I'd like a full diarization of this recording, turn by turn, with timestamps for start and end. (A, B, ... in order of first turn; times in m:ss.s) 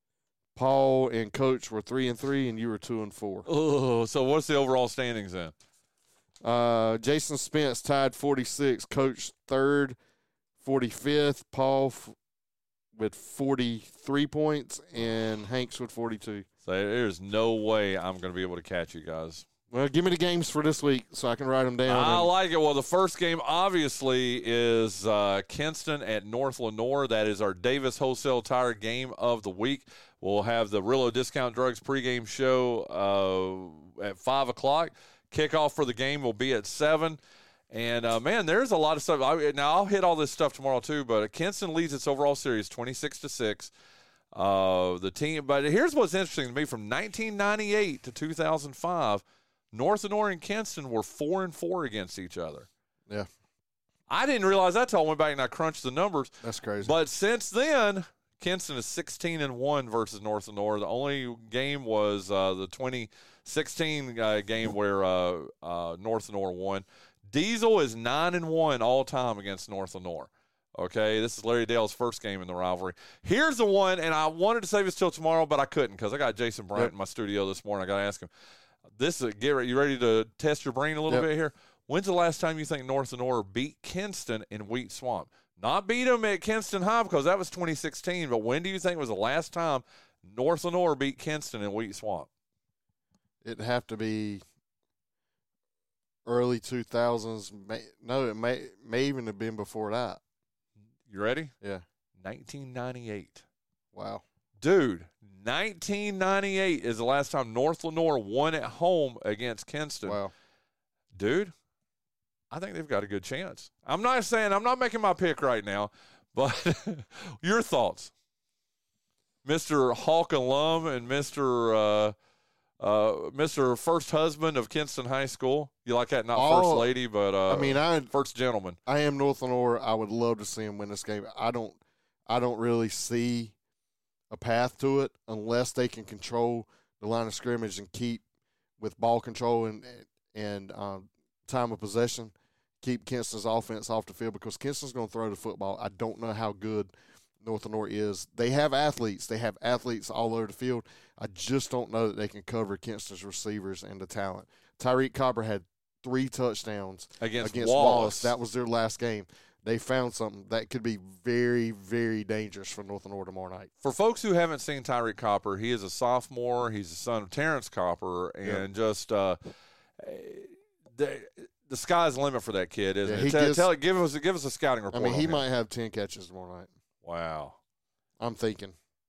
0:00.6-0:03.5 A
0:03.5-0:05.5 B
0:06.4-0:10.0 A
0:10.6-0:12.2 A
0:12.9-0:16.5 A
0:16.6-0:19.5 B
0:19.7-0:22.3 A
0:21.9-0:37.2 B
0:37.7-0:43.7 B
0:44.3-0:52.7 B
0:54.1-1:18.3 B
0:56.4-0:56.9 A
1:18.9-1:32.3 B
1:33.4-1:34.4 A
1:36.2-1:40.2 A
1:41.1-1:41.5 B
1:42.2-1:43.4 B
1:43.9-1:44.2 A
1:44.6-1:50.2 B
1:50.0-1:50.3 A
1:51.1-1:51.5 B
1:52.5-1:58.1 B
1:59.4-2:02.2 B
2:02.8-2:08.8 B
2:06.3-2:06.9 A
2:07.5-2:08.1 A
2:08.9-2:13.5 A
2:14.3-2:18.2 A
2:18.8-2:43.7 A
2:37.2-2:38.4 B
2:43.8-2:49.4 B
2:50.0-2:55.4 B
2:53.0-2:53.7 A
2:54.9-2:56.7 A
2:57.0-2:57.6 B
2:58.2-2:58.8 A